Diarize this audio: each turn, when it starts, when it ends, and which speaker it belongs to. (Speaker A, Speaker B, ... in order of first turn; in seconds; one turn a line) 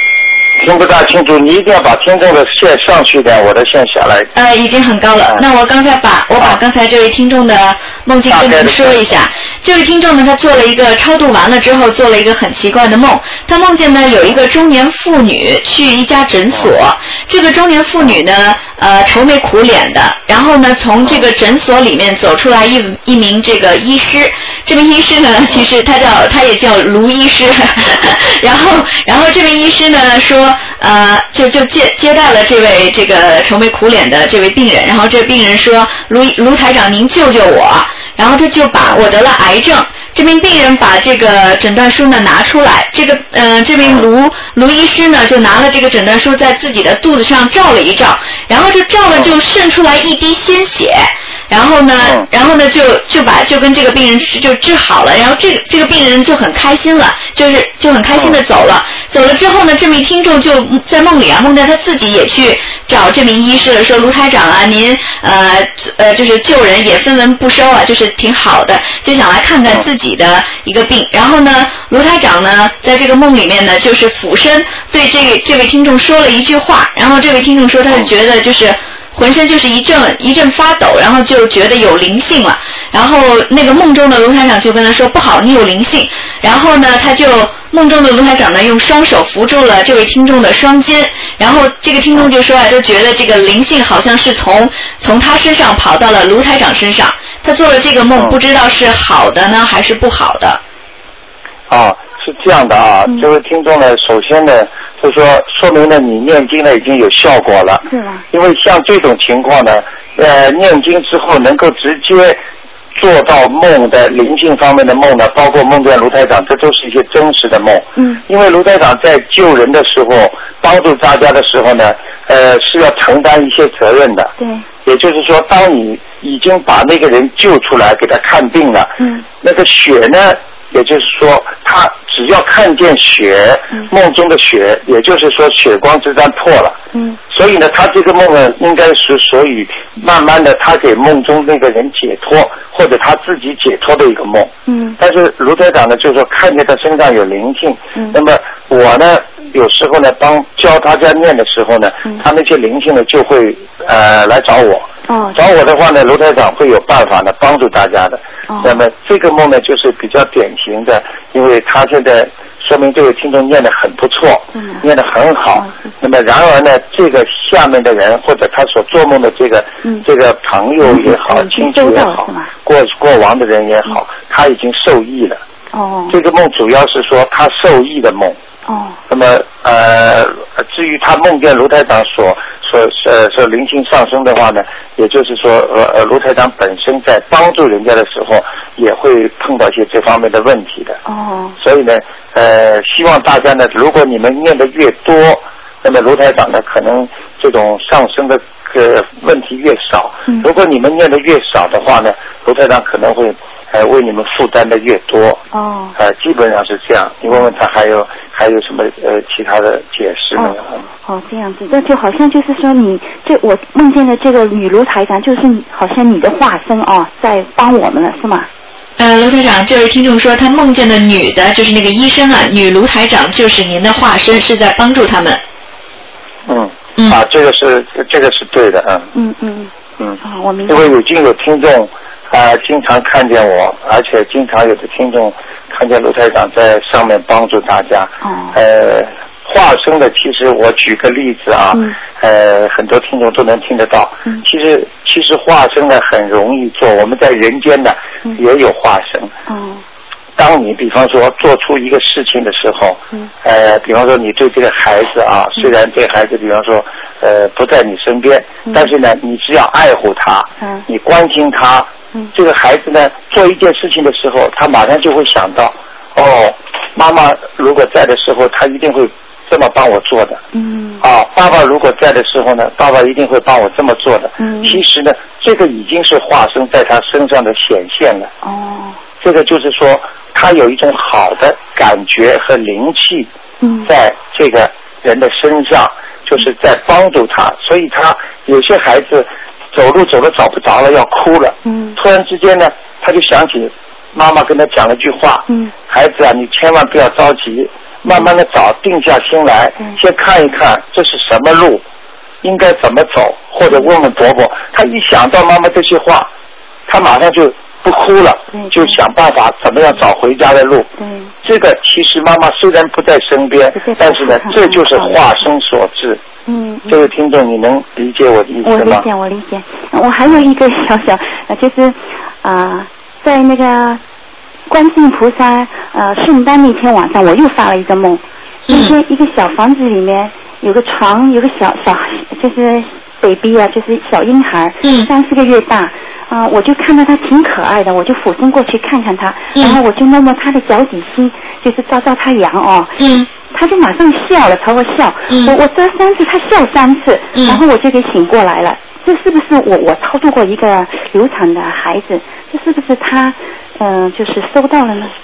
Speaker A: 0.6-4.3
Speaker B: 4.3-100.6
Speaker A: 8.3-9.2
Speaker A: 43.8-44.1
Speaker A: 52.0-52.2
Speaker A: 58.1-58.4
Speaker A: 101.7-112.4
Speaker C: 107.9-108.2
Speaker A: 113.0-124.3
Speaker C: 118.0-118.2
Speaker C: 124.4-124.7
Speaker A: 124.8-136.8
Speaker C: 129.0-129.2
Speaker C: 136.9-137.2
Speaker A: 137.3-175.4
Speaker C: 144.7-145.0
Speaker C: 155.1-155.4
Speaker C: 158.5-158.8
Speaker C: 164.5-164.8
Speaker C: 165.5-165.9
Speaker C: 170.8-172.5
Speaker C: 175.7-176.2
Speaker A: 176.1-178.4
Speaker C: 178.7-179.0
Speaker A: 179.1-191.0
Speaker C: 191.1-191.6
Speaker A: 191.6-205.4
Speaker C: 205.5-205.9
Speaker A: 205.9-210.8
Speaker C: 210.3-218.5
Speaker B: 219.0-225.4
Speaker A: 226.5-229.1
Speaker C: 229.1-229.7
Speaker A: 230.0-249.3
Speaker C: 230.2-230.9
Speaker C: 238.2-238.6
Speaker C: 249.5-249.8
Speaker A: 250.4-270.4
Speaker C: 270.5-271.0
Speaker A: 271.0-278.3
Speaker C: 274.4-274.8
Speaker C: 278.4-279.0
Speaker A: 279.2-283.3
Speaker C: 283.6-283.9
Speaker A: 283.8-301.8
Speaker C: 291.6-292.0
Speaker A: 302.4-306.3
Speaker A: 306.9-310.9
Speaker C: 308.5-308.9
Speaker C: 311.0-311.3
Speaker A: 311.4-316.2
Speaker C: 313.8-315.3
Speaker C: 316.5-317.0
Speaker A: 316.9-319.1
Speaker C: 318.6-324.0
Speaker C: 324.7-355.1
Speaker B: 328.7-328.9
Speaker B: 334.8-335.1
Speaker B: 343.0-343.3
Speaker B: 345.3-345.5
Speaker B: 347.3-347.6